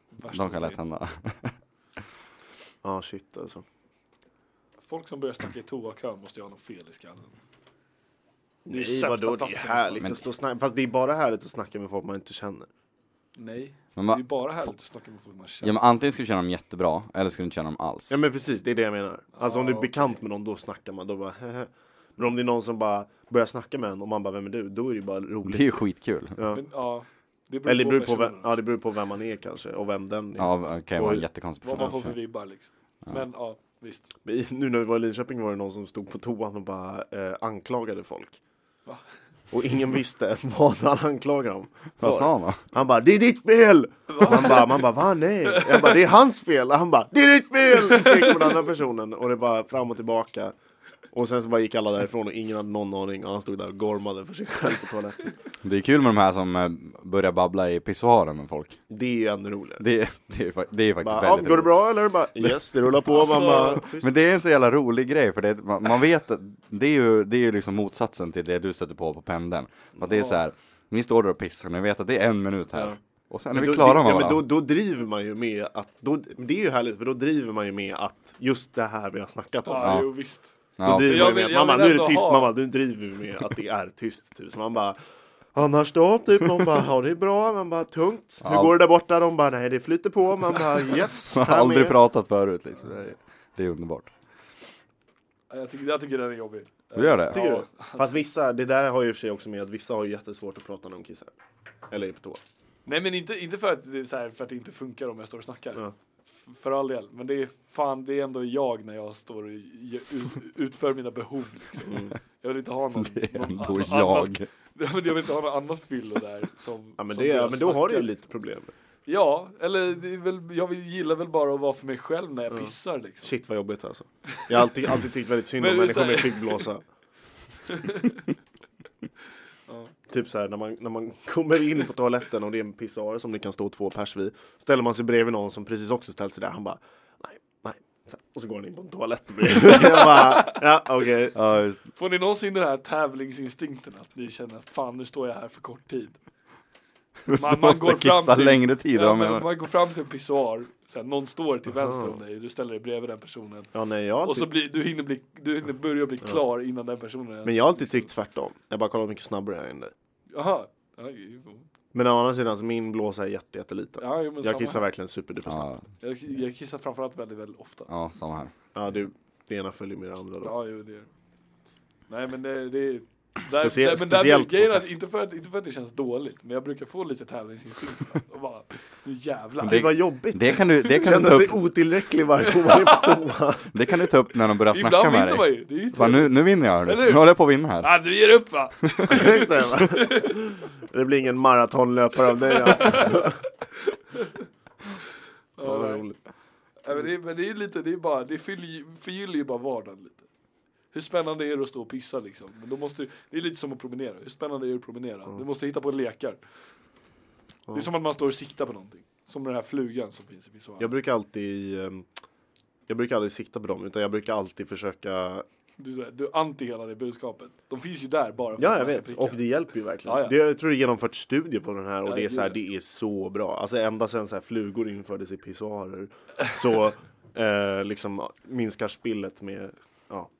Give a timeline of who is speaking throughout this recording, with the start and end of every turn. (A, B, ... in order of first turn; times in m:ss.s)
0:00.2-0:00.8 A
0:00.3-0:01.6 B
0:02.8-0:03.6 C
0:04.8-0:07.3 A
0:08.6-0:12.7 C
0:08.7-0:10.2 A
0:13.4-0:15.8 A
0:14.0-0:14.7 B
0:15.6-0:18.2 B
0:18.1-0:25.8 C
0:19.3-0:20.1 A
0:25.4-0:26.4 B
0:26.4-0:26.6 C
0:26.5-0:28.5 A
0:27.6-0:31.2 C
0:30.4-0:32.2 B
0:31.6-0:34.1 A
0:34.2-0:38.4 C
0:39.5-0:50.5 C
0:42.0-0:42.6 B
0:44.1-0:44.8 A
0:45.5-0:46.0 A
0:48.0-0:48.4 A
0:51.1-0:55.3 C
0:55.6-0:58.8 B
0:58.9-0:59.8 C
0:59.8-1:01.7 B
1:01.0-1:04.1 C
1:03.1-1:03.8 A
1:03.2-1:14.4 B
1:13.5-1:20.0 C
1:19.6-1:22.5 A
1:19.8-1:20.1 B
1:20.8-1:21.4 B
1:20.8-1:25.0 C
1:25.5-1:32.0 C
1:28.4-1:28.7 B
1:31.3-1:34.1 B
1:35.5-1:38.1 A
1:36.9-1:37.4 B
1:37.3-1:41.3 C
1:41.9-1:42.4 C
1:42.8-1:45.8 A
1:46.4-1:58.1 A
1:51.9-1:52.1 C
1:52.9-1:54.4 B
1:57.0-1:58.7 C
1:59.0-2:03.3 A
2:02.5-2:06.8 C
2:04.3-2:04.6 A
2:05.6-2:06.6 A
2:07.7-2:08.2 A
2:09.7-2:09.9 A
2:10.1-2:21.4 C
2:19.5-2:20.6 A
2:21.3-2:21.8 B
2:21.9-2:26.2 A
2:27.2-2:29.5 B
2:27.4-2:33.7 A
2:31.7-2:32.2 C
2:33.7-2:34.5 C
2:34.2-2:38.1 A
2:37.4-2:39.9 C
2:40.3-2:41.7 A
2:41.9-2:45.7 C
2:44.0-2:44.8 A
2:45.4-2:45.8 B
2:46.0-2:47.9 A
2:47.9-2:48.5 B
2:48.7-2:50.5 C
2:50.4-2:51.1 A
2:52.1-2:59.9 A
2:53.5-2:55.0 C
2:59.6-3:01.6 B
2:59.6-3:03.7 C
3:02.4-3:03.2 A
3:03.7-3:07.9 B
3:04.7-3:07.3 A
3:07.8-3:10.4 A
3:08.8-3:09.3 B
3:09.1-3:13.4 C
3:12.4-3:13.3 A
3:13.9-3:14.4 A
3:15.6-3:16.0 A
3:15.6-3:16.2 C
3:16.8-3:20.2 A
3:20.9-3:26.4 A
3:27.7-3:30.9 A
3:30.8-3:32.1 C
3:32.9-3:35.4 C
3:35.8-3:39.4 A
3:38.6-3:50.3 C
3:40.0-3:40.3 A
3:42.0-3:42.6 A